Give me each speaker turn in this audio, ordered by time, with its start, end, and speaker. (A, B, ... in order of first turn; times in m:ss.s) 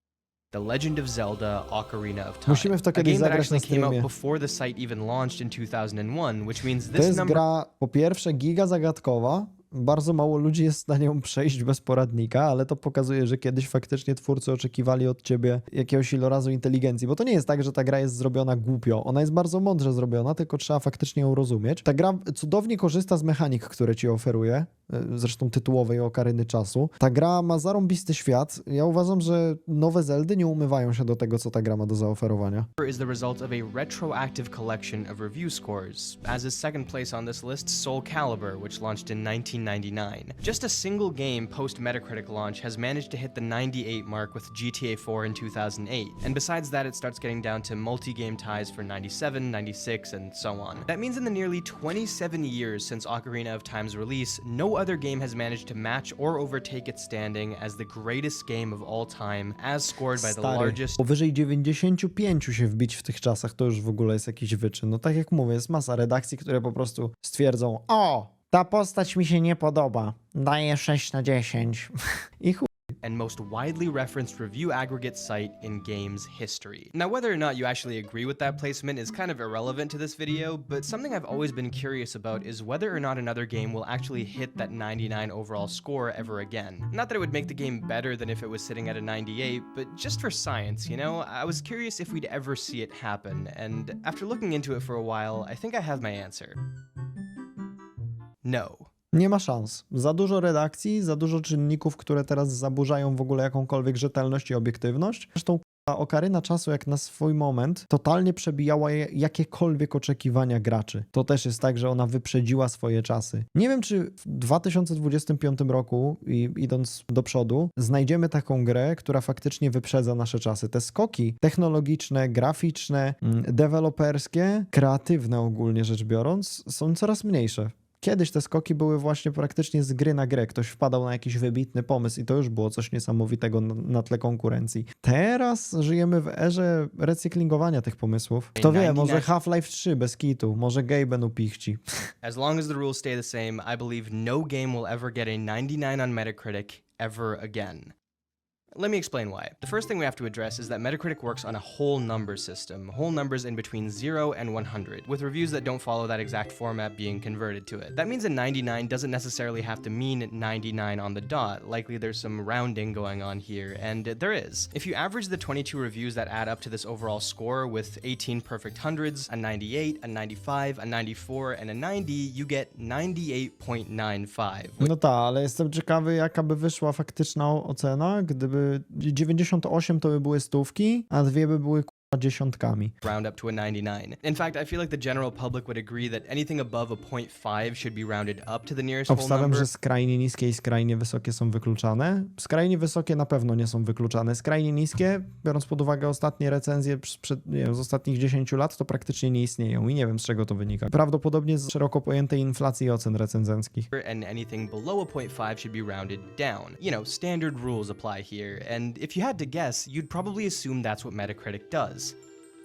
0:00.5-0:07.4 A
0:02.4-0:04.1 B
0:06.9-0:32.7 B
0:32.8-1:01.0 A
1:00.1-1:12.7 B
1:13.0-1:36.6 A
1:38.4-1:38.9 A
1:39.1-2:21.8 B
2:18.6-2:19.3 A
2:22.2-2:27.9 A
2:28.7-2:54.9 A
2:54.8-3:02.9 B
3:03.0-3:09.7 A
3:09.1-3:23.9 B
3:23.9-3:32.1 A